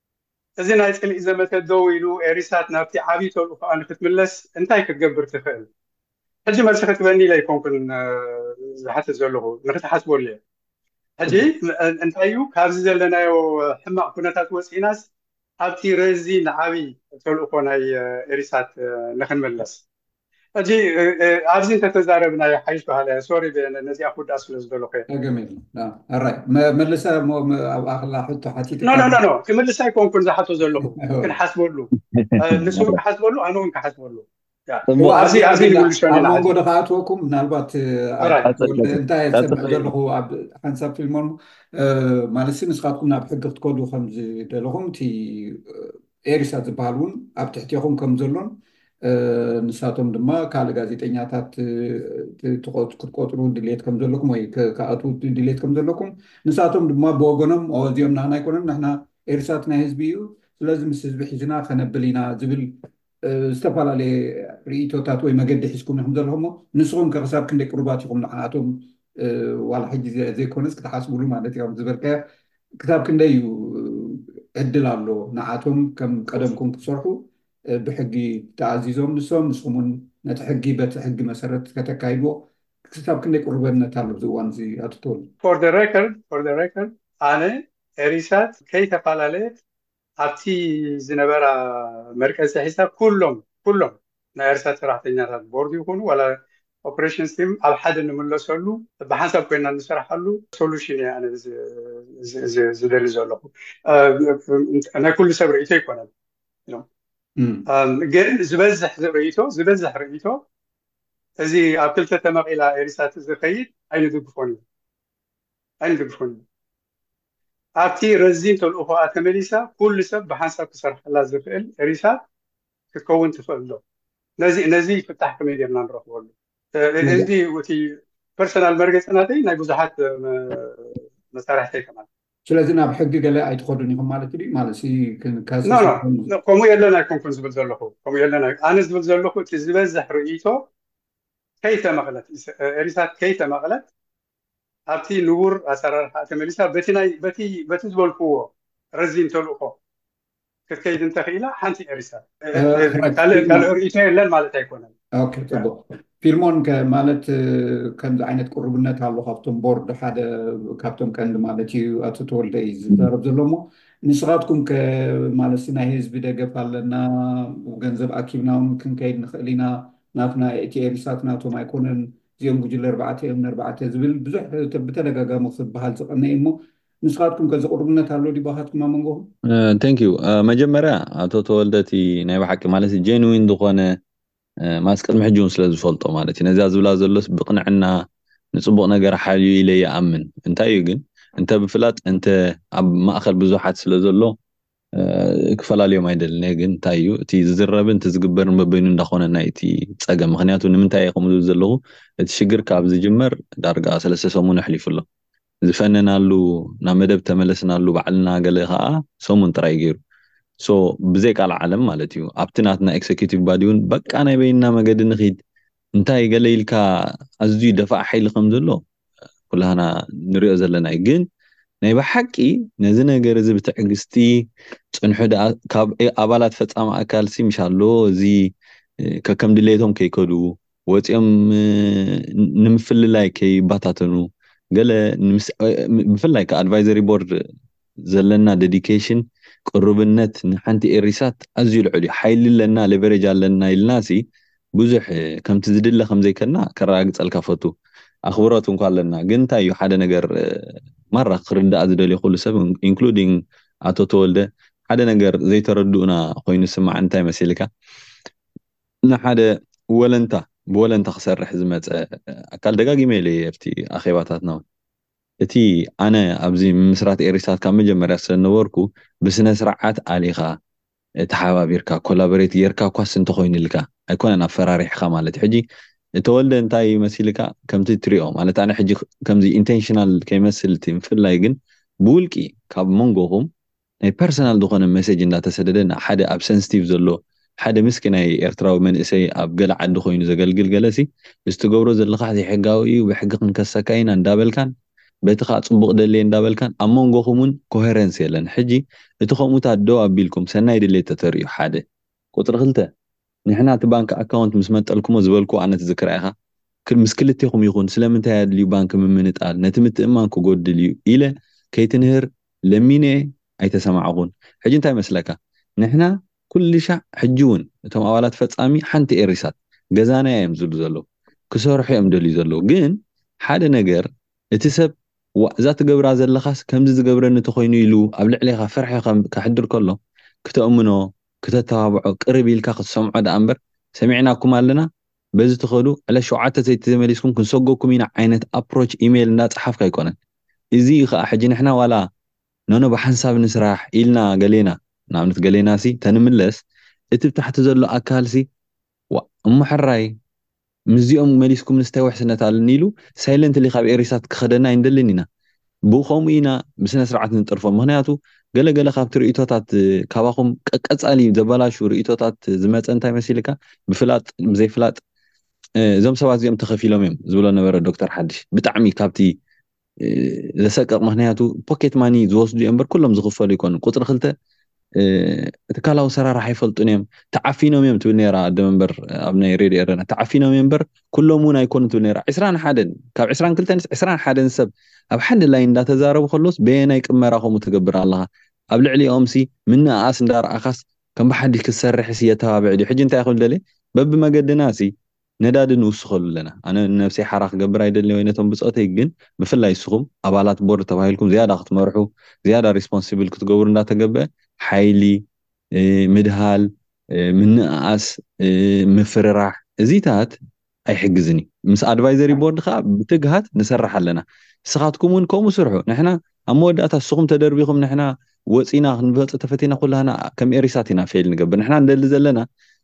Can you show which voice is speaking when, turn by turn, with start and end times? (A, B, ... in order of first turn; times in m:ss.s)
0:00.6-0:05.7 A
0:06.5-0:10.4 A
0:11.2-0:15.1 A
0:15.6-0:19.8 A
0:20.6-0:25.1 A
0:25.1-0:29.2 B
0:28.8-0:36.5 A
0:31.0-0:31.3 B
0:32.1-0:33.0 C
0:34.9-0:35.1 C
0:35.0-1:12.2 B
0:38.2-0:38.5 A
0:38.5-0:39.9 C
1:12.8-1:25.3 B
1:25.4-1:29.6 A
1:30.2-1:46.1 A
1:47.4-1:47.7 B
1:47.7-1:50.4 A
1:51.4-1:54.6 A
1:55.8-1:56.4 A
1:57.8-2:02.2 A
2:02.9-2:03.8 A
2:04.4-2:12.1 A
2:07.0-2:07.3 B
2:12.5-2:16.3 B
2:15.6-2:20.7 A
2:21.6-2:23.8 A
2:24.9-2:29.8 A
2:30.7-2:34.9 A
2:32.5-2:33.7 B
2:35.2-2:59.3 B
2:59.4-3:04.0 C
3:04.6-3:14.4 C
3:15.0-3:25.0 C
3:25.7-3:30.0 C
3:30.6-3:35.4 C
3:36.0-3:36.8 C
3:37.4-3:38.8 C
3:39.5-3:41.3 C
3:41.8-3:57.3 C
3:58.1-4:04.2 C
4:04.8-4:07.7 C
4:08.3-4:17.7 C
4:19.1-4:24.6 C
4:25.4-4:30.6 C
4:31.2-4:35.6 C
4:36.2-4:43.5 C
4:44.0-4:54.7 C
4:55.3-5:02.9 C
5:03.5-5:06.3 C
5:06.9-5:40.2 C
5:40.8-5:42.1 C
5:42.7-5:46.6 C
5:47.2-5:48.5 C
5:49.1-5:50.1 C
5:50.9-5:55.3 C
5:55.9-6:05.0 C
6:05.8-6:09.4 C
6:10.0-6:14.3 C
6:15.0-6:34.9 C
6:35.4-6:45.2 C
6:45.8-6:50.4 C
6:50.9-7:02.5 C